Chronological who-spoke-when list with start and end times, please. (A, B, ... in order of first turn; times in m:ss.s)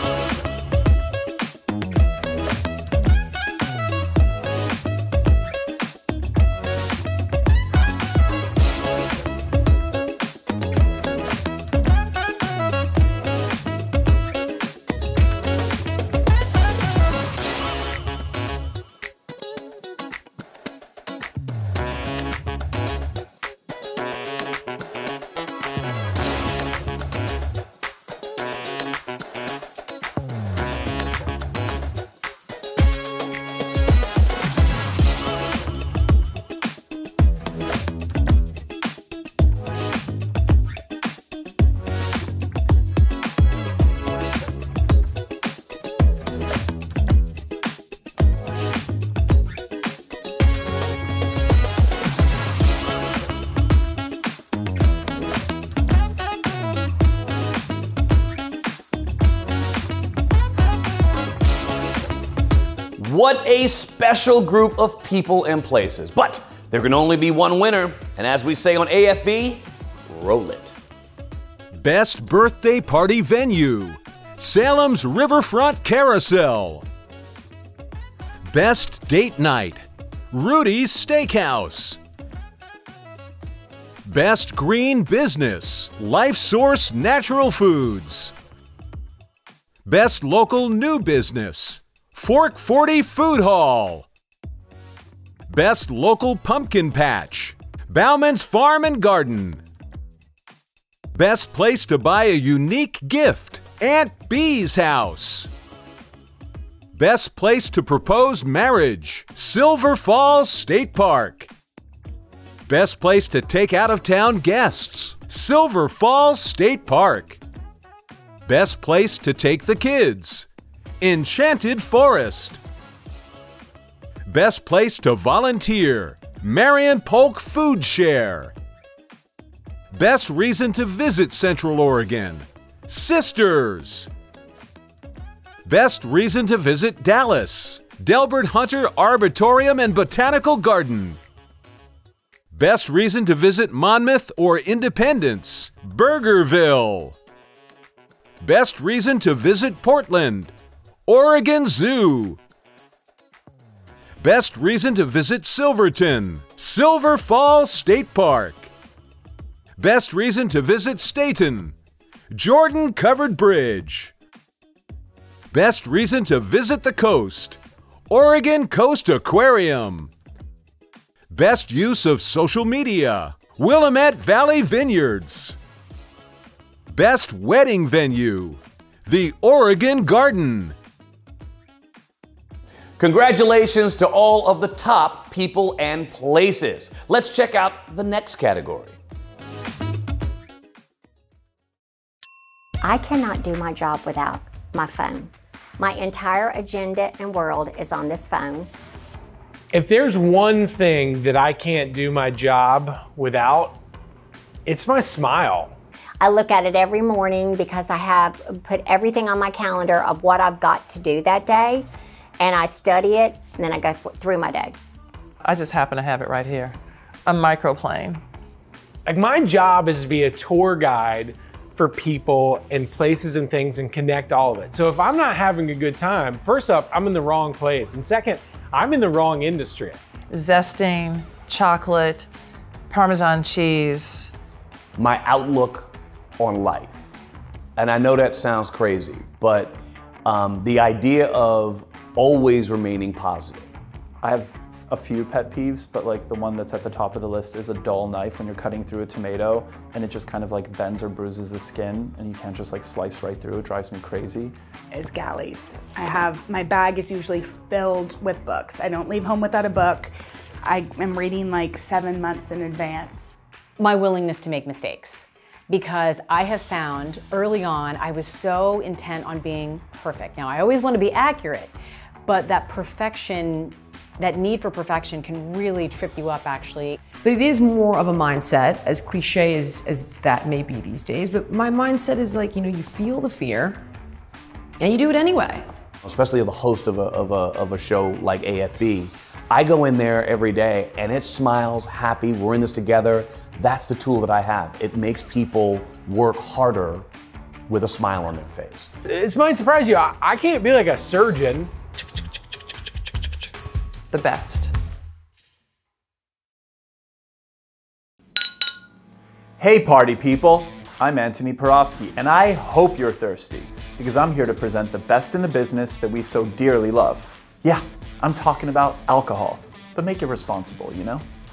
1:03.0-1:10.8 A
1:11.7-1:16.8 B
1:18.5-1:22.0 B
1:24.0-1:28.3 B
1:29.9-1:34.1 B
1:35.5-1:39.6 B
1:41.1-1:45.5 B
1:46.9-1:51.5 B
1:52.7-1:57.4 B
1:58.4-2:00.5 B
2:01.0-2:02.6 B
2:04.2-2:08.5 B
2:09.9-2:14.1 B
2:15.6-2:21.2 B
2:22.5-2:27.2 B
2:28.4-2:30.5 B
2:31.1-2:32.4 B
2:34.2-2:38.7 B
2:39.8-2:41.7 B
2:42.3-2:44.1 B
2:45.5-2:50.1 B
2:51.3-2:55.6 B
2:56.9-3:00.7 B
3:03.0-3:09.0 A
3:12.8-3:18.7 C
3:19.7-3:23.8 D
3:24.6-3:25.7 D
3:26.2-3:31.9 C
3:32.4-3:34.8 C
3:35.4-3:38.2 E
3:39.0-3:50.0 D
3:50.3-3:52.3 E
3:52.9-3:54.3 E
3:55.0-3:57.1 A
3:57.8-4:03.7 A
4:04.2-4:14.6 F
4:14.9-4:23.4 G
4:23.8-4:31.7 H
4:32.2-4:37.0 H
4:37.1-4:43.8 I
4:44.8-4:45.6 I
4:46.0-4:57.1 A
4:57.7-4:58.9 A
4:59.0-5:01.7 D
5:04.1-5:04.7 E
5:09.6-5:21.2 F